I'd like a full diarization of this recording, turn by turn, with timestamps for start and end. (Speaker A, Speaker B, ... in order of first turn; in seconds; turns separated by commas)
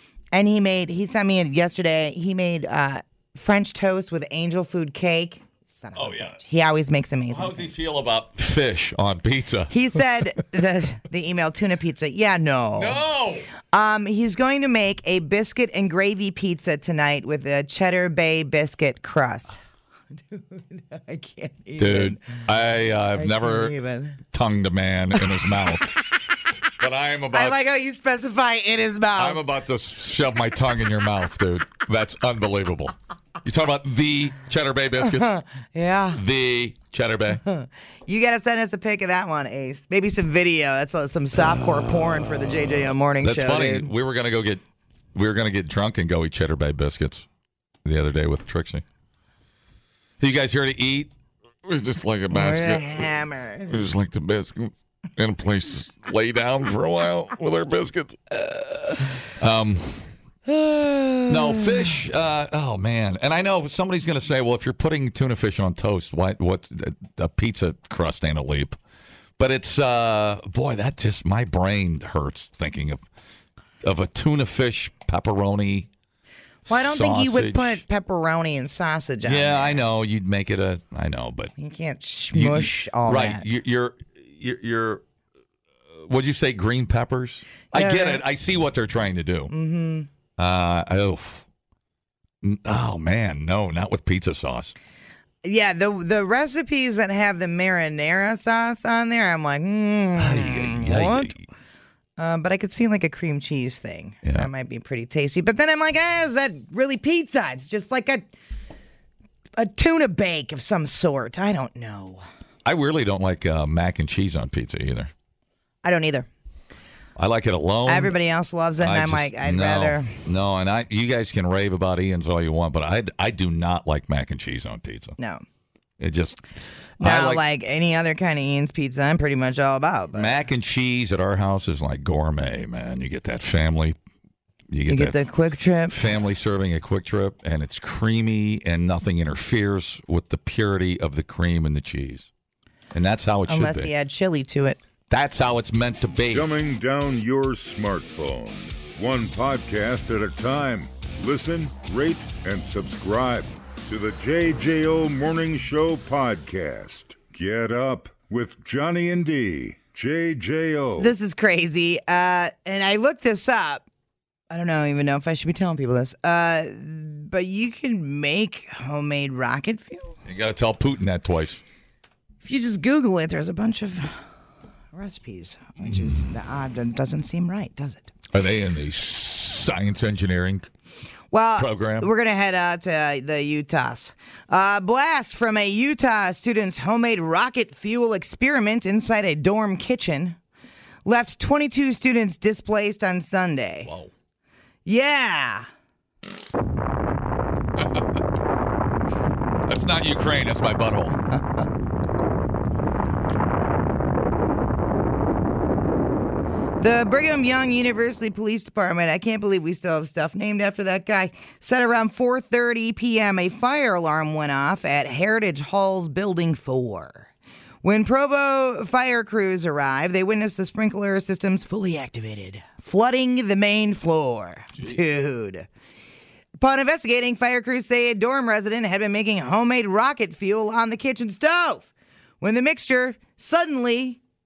Speaker A: 0.3-7.7, Speaker B: 5.9-6.4, Speaker B: 7.3-9.7, Speaker A: 9.7-13.0, Speaker B: 12.8-13.5, Speaker A: 13.6-19.6, Speaker A: 20.1-22.4, Speaker B: 21.8-23.8, Speaker A: 23.1-24.2, Speaker B: 24.3-25.9, Speaker B: 26.8-27.6, Speaker A: 27.3-29.4, Speaker B: 29.2-35.3, Speaker A: 35.0-36.2, Speaker B: 36.1-37.4, Speaker A: 37.4-43.9, Speaker B: 41.4-44.6, Speaker B: 45.1-47.3, Speaker B: 47.8-48.8, Speaker B: 50.2-51.1, Speaker B: 51.6-53.1, Speaker A: 52.3-53.8, Speaker B: 53.7-58.4, Speaker B: 59.3-60.1, Speaker A: 60.5-61.9, Speaker B: 61.3-68.8, Speaker B: 69.4-73.0, Speaker B: 73.8-75.9, Speaker B: 76.7-77.8, Speaker A: 76.7-79.8, Speaker B: 79.2-81.5, Speaker A: 81.6-83.5, Speaker B: 82.3-85.0, Speaker B: 85.9-89.5, Speaker A: 87.7-88.2, Speaker A: 89.5-90.1, Speaker B: 90.4-91.5, Speaker B: 92.4-94.7, Speaker A: 95.4-101.4, Speaker B: 100.2-101.5, Speaker A: 102.2-108.3, Speaker B: 104.2-104.5, Speaker A: 109.6-112.2, Speaker B: 112.7-115.1, Speaker A: 115.8-116.3, Speaker B: 117.2-118.2, Speaker A: 117.9-120.2, Speaker B: 118.8-125.2, Speaker A: 125.2-125.4, Speaker B: 126.0-126.4, Speaker B: 127.0-127.5, Speaker A: 127.0-130.3, Speaker B: 130.1-134.0, Speaker B: 134.7-135.2, Speaker A: 134.9-136.0, Speaker B: 135.9-142.3, Speaker B: 142.9-143.9, Speaker A: 143.5-144.8, Speaker B: 145.1-146.5, Speaker C: 146.3-161.1, Speaker A: 161.0-163.9, Speaker A: 164.5-170.2, Speaker B: 170.3-171.6, Speaker A: 172.4-174.2, Speaker A: 174.9-178.1, Speaker B: 178.3-180.7, Speaker A: 181.3-190.4, Speaker B: 181.6-182.1, Speaker A: 191.1-193.9, Speaker B: 193.8-194.1, Speaker A: 194.8-195.7, Speaker B: 197.8-198.1, Speaker B: 199.7-201.2, Speaker A: 206.8-217.3, Speaker A: 217.8-225.7, Speaker A: 226.6-231.9, Speaker A: 232.4-234.2